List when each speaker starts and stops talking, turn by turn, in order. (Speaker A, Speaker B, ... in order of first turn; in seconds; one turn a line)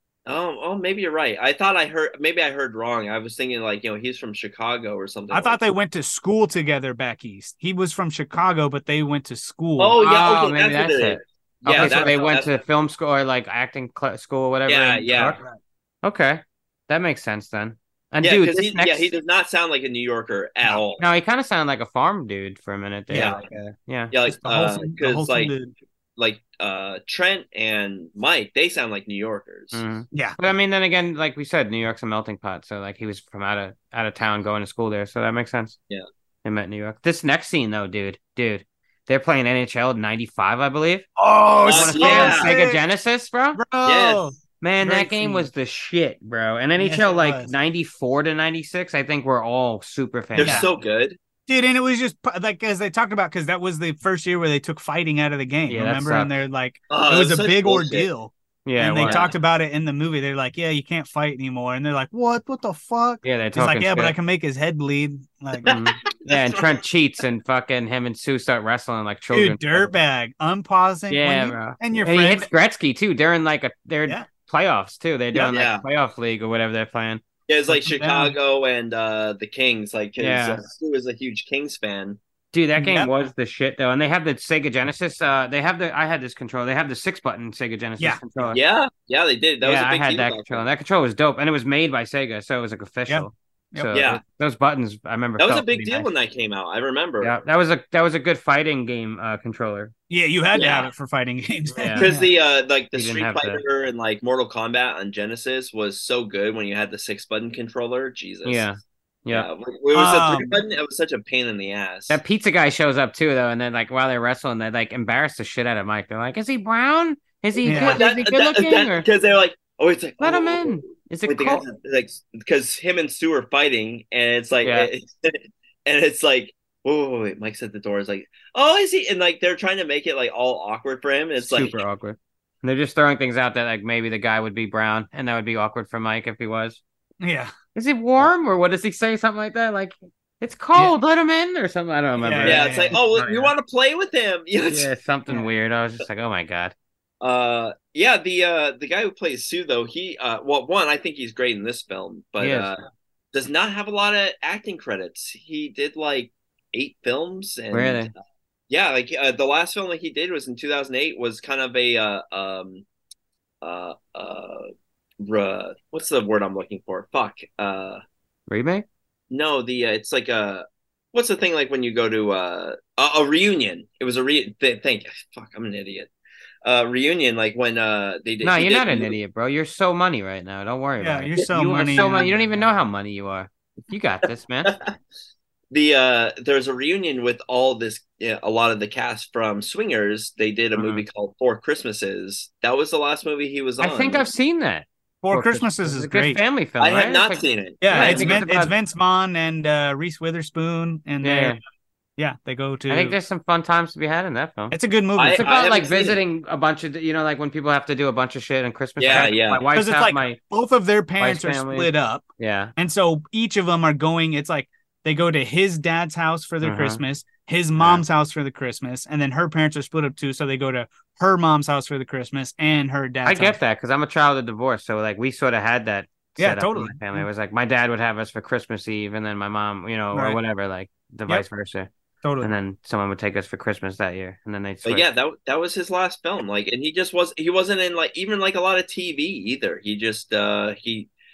Speaker A: 0.3-5.6
Speaker B: 5.3-10.0
Speaker A: 9.8-12.6
Speaker C: 10.0-15.4
Speaker B: 11.7-12.3
Speaker A: 14.7-15.4
Speaker B: 15.2-15.6
Speaker C: 16.0-19.1
Speaker A: 18.2-21.1
Speaker C: 21.0-24.1
Speaker B: 23.1-23.4
Speaker A: 23.1-23.4
Speaker A: 24.1-25.5
Speaker B: 24.3-25.7
Speaker A: 26.2-29.8
Speaker C: 29.7-35.8
Speaker B: 30.1-30.4
Speaker C: 36.4-41.1
Speaker B: 41.2-42.8
Speaker C: 41.6-43.6
Speaker A: 41.7-42.5
Speaker B: 43.5-45.5
Speaker A: 43.9-44.3
Speaker C: 44.6-50.7
Speaker B: 46.8-47.5
Speaker A: 50.4-51.2
Speaker B: 50.4-50.7
Speaker B: 51.5-65.7
Speaker C: 55.7-56.4
Speaker A: 56.9-58.1
Speaker C: 58.6-59.3
Speaker A: 59.0-59.3
Speaker C: 63.2-64.2
Speaker C: 65.7-69.9
Speaker A: 65.7-66.8
Speaker B: 69.3-72.5
Speaker C: 71.1-77.2
Speaker A: 75.3-75.8
Speaker A: 77.5-82.2
Speaker B: 77.7-78.3
Speaker C: 80.2-80.6
Speaker C: 82.5-88.6
Speaker B: 82.8-83.1
Speaker A: 88.5-90.6
Speaker C: 89.6-96.1
Speaker B: 93.1-94.0
Speaker A: 93.9-94.2
Speaker A: 95.4-97.3
Speaker C: 97.2-99.9
Speaker B: 100.1-102.3
Speaker A: 100.5-100.9
Speaker C: 101.7-102.1
Speaker A: 102.0-108.7
Speaker C: 102.9-103.6
Speaker C: 108.5-109.5
Speaker A: 109.3-112.2
Speaker B: 109.9-110.6
Speaker C: 112.1-119.1
Speaker A: 117.6-120.7
Speaker B: 117.7-118.0
Speaker C: 120.2-121.7
Speaker A: 121.3-131.8
Speaker C: 124.6-124.9
Speaker C: 131.4-136.8
Speaker B: 137.2-137.5
Speaker C: 137.8-143.5
Speaker B: 142.2-143.0
Speaker A: 142.4-144.9
Speaker C: 144.7-146.7
Speaker A: 147.2-152.8
Speaker C: 152.4-152.7
Speaker A: 153.3-158.1
Speaker C: 157.7-158.1
Speaker A: 158.7-162.8
Speaker A: 163.6-164.7
Speaker A: 165.2-168.0
Speaker C: 168.5-168.8
Speaker A: 169.3-176.1
Speaker A: 176.6-179.2
Speaker C: 178.4-184.8
Speaker B: 181.0-182.7
Speaker A: 185.7-194.3
Speaker C: 190.8-191.0
Speaker C: 193.8-198.7
Speaker B: 195.2-196.4
Speaker A: 196.8-198.4
Speaker B: 197.8-201.6
Speaker C: 201.2-201.6
Speaker B: 202.2-203.2
Speaker C: 202.9-204.8
Speaker B: 204.7-205.5
Speaker A: 205.2-206.2
Speaker C: 205.4-210.4
Speaker A: 209.0-209.6
Speaker B: 209.2-212.3
Speaker C: 211.2-212.7
Speaker B: 212.8-223.6
Speaker C: 216.6-217.0
Speaker C: 217.8-218.0
Speaker C: 223.2-235.1
Speaker B: 226.4-227.3
Speaker B: 230.1-230.4
Speaker B: 232.2-232.5
Speaker A: 234.8-241.1